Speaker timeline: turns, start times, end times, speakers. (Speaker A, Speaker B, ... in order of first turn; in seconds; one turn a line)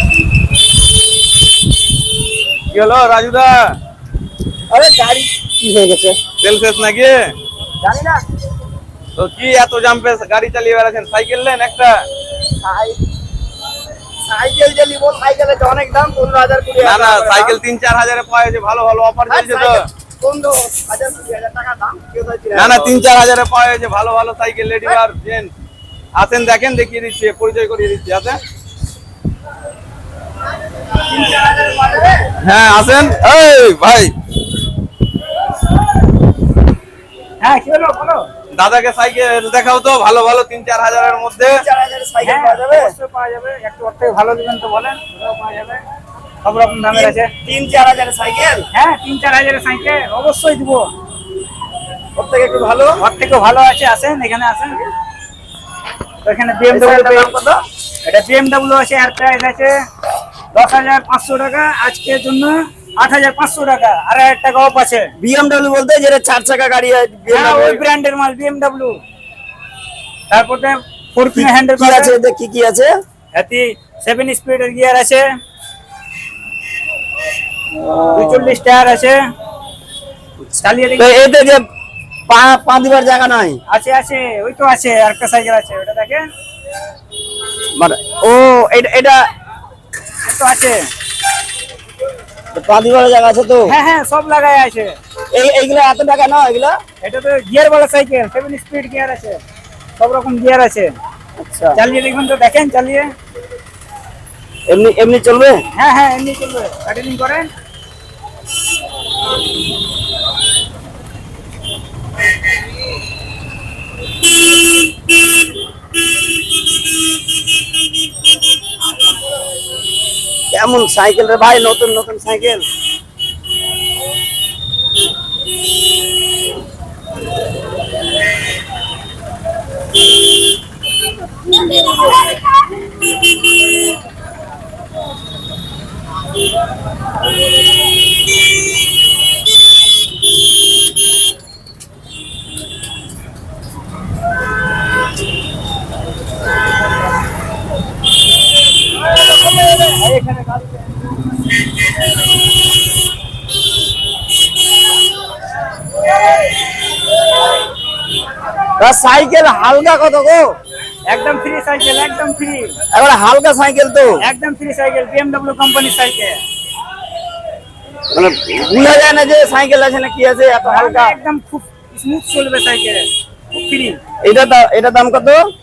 Speaker A: 2.7-3.8
Speaker B: 4.7-6.2
Speaker A: 6.4-7.3
Speaker B: 7.8-8.2
Speaker A: 9.2-12.1
Speaker B: 12.6-13.0
Speaker B: 14.3-17.6
Speaker A: 16.8-19.9
Speaker B: 19.3-22.9
Speaker A: 22.5-25.5
Speaker A: 26.1-28.4
Speaker B: 31.1-32.2
Speaker A: 32.4-34.1
Speaker C: 37.4-38.3
Speaker A: 38.5-41.6
Speaker B: 41.4-42.9
Speaker C: 42.2-45.8
Speaker C: 46.4-47.3
Speaker B: 46.9-48.6
Speaker C: 48.7-50.9
Speaker B: 52.2-53.0
Speaker C: 53.0-54.8
Speaker C: 56.2-57.3
Speaker B: 56.7-57.6
Speaker C: 58.1-59.8
Speaker C: 60.5-65.1
Speaker B: 65.2-67.8
Speaker C: 67.3-69.0
Speaker C: 70.3-72.2
Speaker B: 71.4-72.9
Speaker C: 73.3-75.2
Speaker B: 77.7-78.6
Speaker C: 78.1-79.2
Speaker B: 80.5-81.6
Speaker C: 80.6-81.2
Speaker B: 82.3-83.6
Speaker C: 83.7-86.2
Speaker B: 87.8-89.2
Speaker C: 90.2-90.9
Speaker B: 92.5-93.7
Speaker C: 93.7-95.0
Speaker B: 95.3-96.8
Speaker C: 97.0-99.4
Speaker C: 100.0-100.9
Speaker B: 101.4-101.8
Speaker C: 101.8-103.1
Speaker B: 104.7-105.6
Speaker C: 105.8-107.5
Speaker B: 120.5-122.7
Speaker C: 149.3-151.1
Speaker B: 158.8-160.6
Speaker C: 161.1-162.8
Speaker B: 162.9-164.2
Speaker C: 164.2-166.4
Speaker B: 168.1-171.2
Speaker C: 170.6-174.0
Speaker B: 174.2-175.4